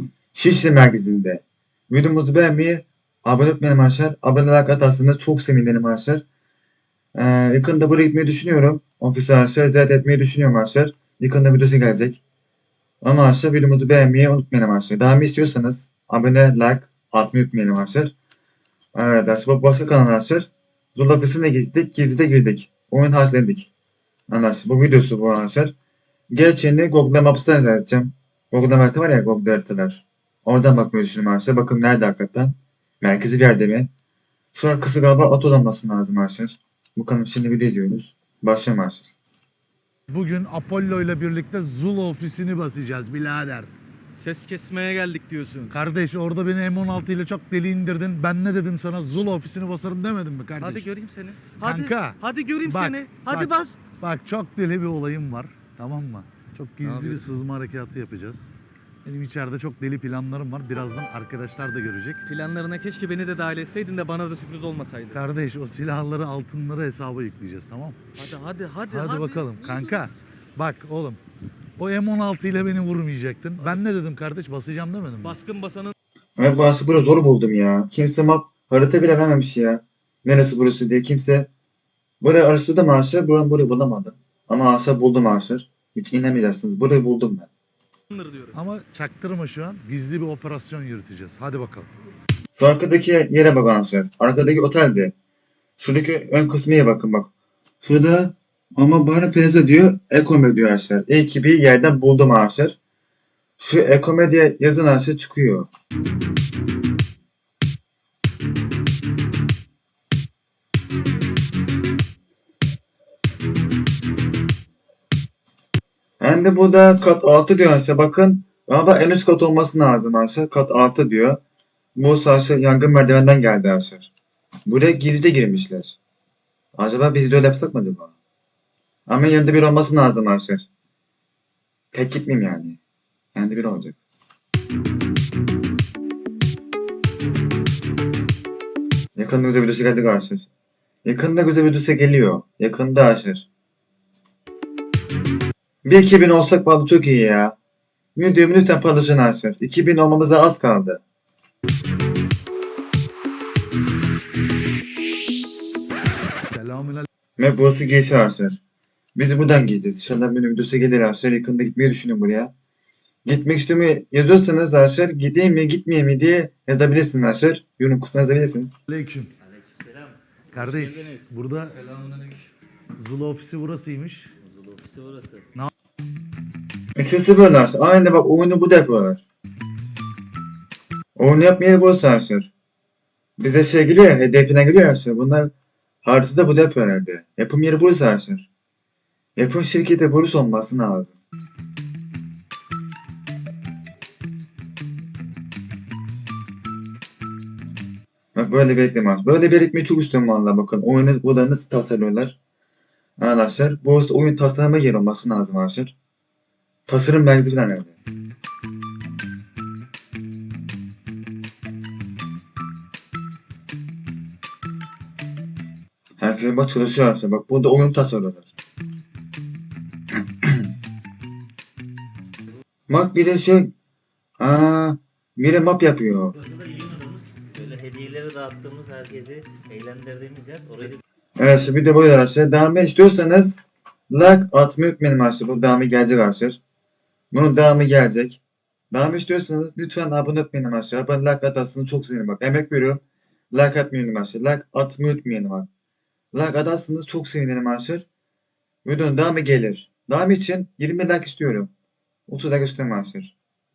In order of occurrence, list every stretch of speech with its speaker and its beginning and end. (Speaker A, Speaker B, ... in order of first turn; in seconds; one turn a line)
Speaker A: 0.3-6.2
Speaker A: 7.1-12.2
Speaker A: 13.0-18.1
Speaker A: 18.9-23.7
Speaker A: 24.3-25.7
Speaker A: 26.3-33.9
Speaker A: 34.5-39.1
Speaker B: 40.1-43.7
Speaker C: 44.2-45.7
Speaker B: 45.7-50.9
Speaker C: 50.6-53.8
Speaker B: 51.6-58.5
Speaker C: 56.8-57.2
Speaker B: 59.0-62.2
Speaker C: 62.2-65.2
Speaker B: 65.1-68.2
Speaker C: 68.1-70.0
Speaker B: 68.9-71.2
Speaker B: 71.8-75.3
Speaker C: 75.2-75.9
Speaker A: 76.4-81.5
Speaker A: 82.2-87.5
Speaker C: 88.1-88.5
Speaker B: 88.5-91.9
Speaker A: 92.5-95.1
Speaker A: 95.8-97.3
Speaker A: 97.8-102.8
Speaker A: 103.6-105.7
Speaker A: 116.2-121.4
Speaker A: 122.0-124.1
Speaker A: 124.7-126.0
Speaker A: 126.7-128.1
Speaker A: 129.1-130.7
Speaker A: 131.9-132.8
Speaker A: 133.3-134.0
Speaker A: 139.1-140.5
Speaker A: 141.0-143.5
Speaker A: 145.8-147.6
Speaker A: 148.1-151.0
Speaker B: 156.4-157.1
Speaker A: 157.4-158.6
Speaker A: 159.1-162.5
Speaker A: 163.2-168.7
Speaker B: 168.9-169.3
Speaker D: 169.4-171.3
Speaker B: 170.5-171.8
Speaker C: 171.8-172.5
Speaker B: 173.0-174.3
Speaker D: 174.4-175.5
Speaker A: 176.9-179.2
Speaker A: 181.2-182.5
Speaker A: 183.4-185.5
Speaker A: 186.0-188.5
Speaker A: 189.3-191.1
Speaker A: 198.3-202.4
Speaker A: 203.2-205.9
Speaker A: 206.9-207.9
Speaker A: 216.2-218.5
Speaker A: 222.9-223.7
Speaker A: 224.4-226.3
Speaker D: 226.4-231.0
Speaker A: 231.4-233.6
Speaker A: 234.1-236.6
Speaker A: 237.3-245.7
Speaker A: 246.3-248.1
Speaker A: 248.8-251.7
Speaker A: 252.3-253.3